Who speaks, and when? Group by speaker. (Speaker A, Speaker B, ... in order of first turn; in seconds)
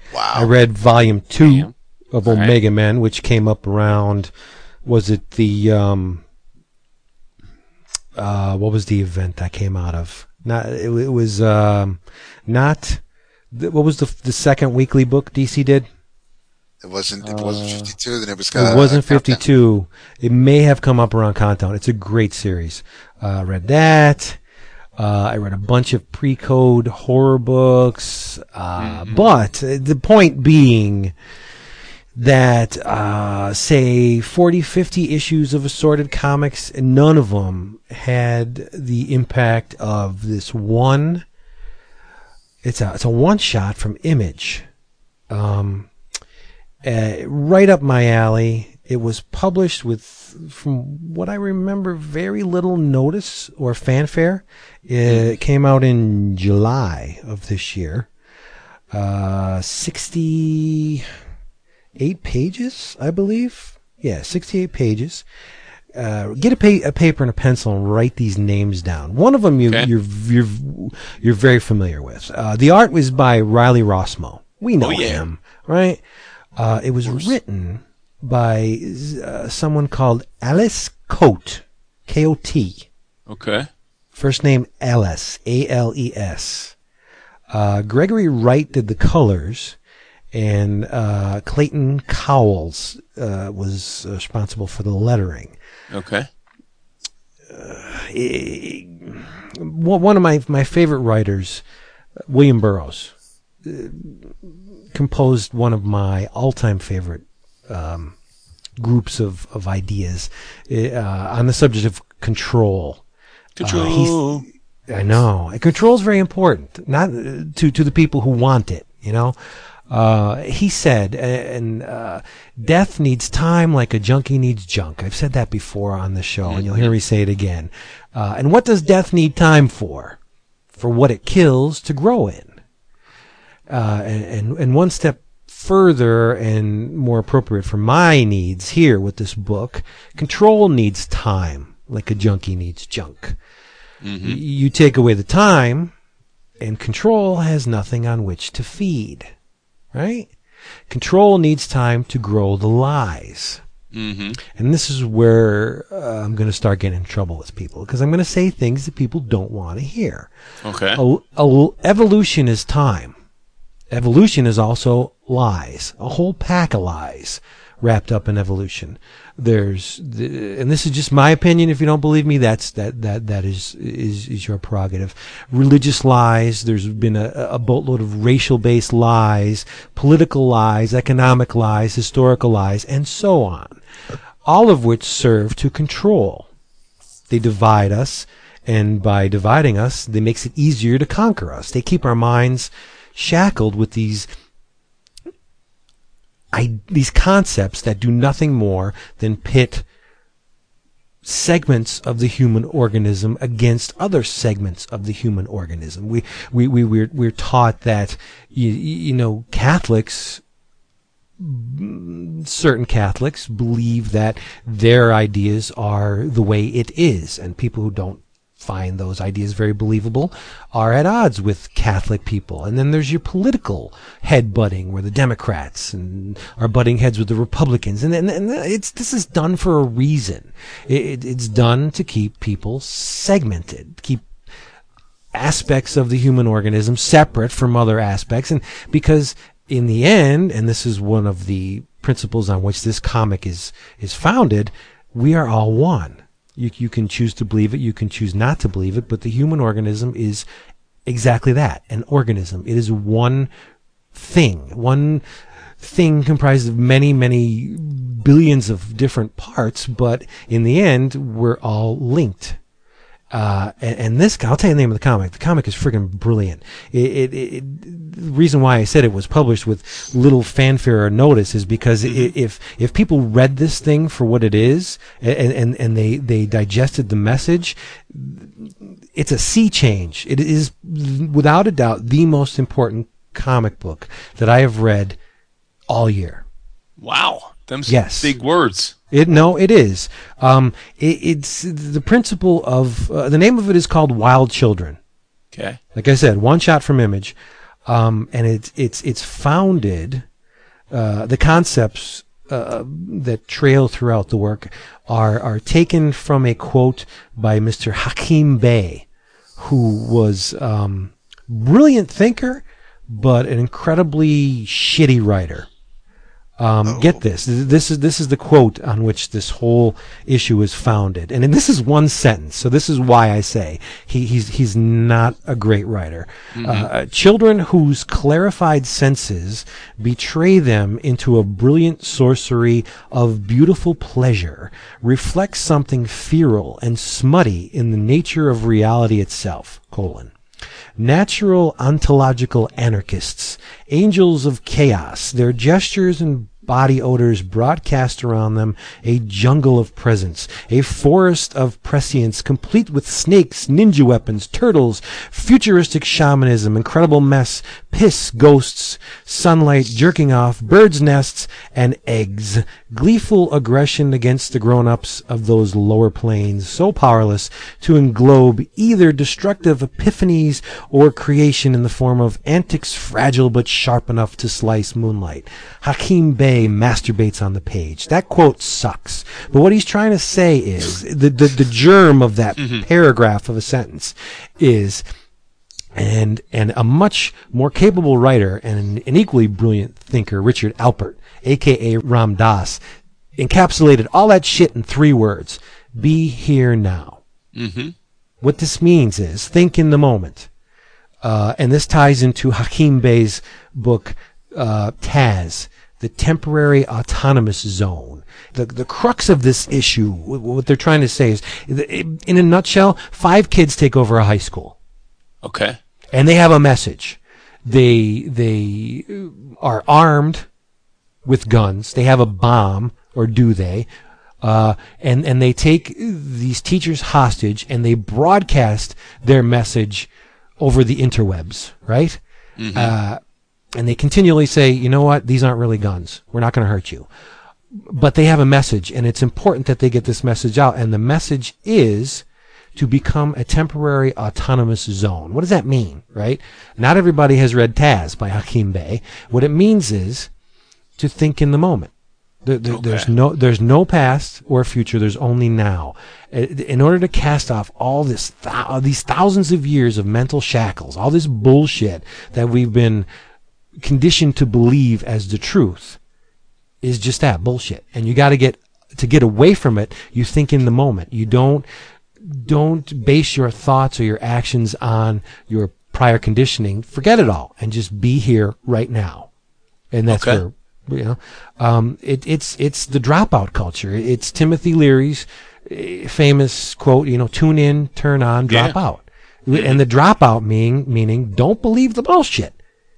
Speaker A: 0.1-0.5, 16.8-19.4, 316.8-317.2
Speaker B: 0.3-4.3, 4.8-6.2, 8.2-15.9, 18.5-24.4, 25.0-31.1, 32.1-41.2, 42.6-44.6, 45.3-45.9, 46.8-58.1, 58.9-61.1, 62.0-65.2, 66.0-76.0, 76.6-82.9, 84.1-86.7, 87.5-89.8, 90.3-95.5, 97.5-101.6, 102.3-103.1, 103.6-108.1, 108.8-113.0, 113.6-119.3, 119.9-130.2, 130.7-132.5, 133.7-143.4, 144.2-145.9, 146.6-149.3, 149.9-150.3, 150.9-153.6, 154.5-160.3, 160.9-163.1, 163.9-183.8, 184.4-186.5, 187.3-194.3, 196.5-199.8, 201.2-210.4, 211.4-234.2, 235.3-250.4, 251.1-253.5, 254.1-255.2, 255.8-262.6, 263.3-285.2, 285.9-286.4, 287.9-288.3, 289.1-295.0, 295.9-297.3, 297.9-300.2, 300.9-309.1, 309.6-315.7, 316.6-340.3, 341.0-385.0, 385.9-392.8, 393.4-397.2, 398.4-400.5, 401.2-414.8, 416.1-420.4, 421.2-423.9, 424.4-430.1, 430.6-432.2, 432.7-433.2, 433.8-437.1, 437.7-442.2, 442.8-450.3, 451.0-451.9, 452.4-463.1, 463.8-466.0, 466.8-471.6, 472.2-479.3, 479.9-492.5
Speaker C: 1.4-1.7, 2.2-2.5, 17.2-17.9, 28.8-29.3, 74.8-75.2, 77.0-77.3, 83.3-83.7, 95.9-96.3, 113.6-114.4, 126.5-126.9, 144.0-144.4, 153.9-154.4, 160.6-161.0, 272.1-272.3, 287.0-288.9, 295.5-295.8, 326.5-326.9, 382.6-382.9, 397.5-397.9, 415.4-415.8, 432.6-432.9, 452.7-453.1, 480.1-480.4, 488.5-488.7, 489.5-489.8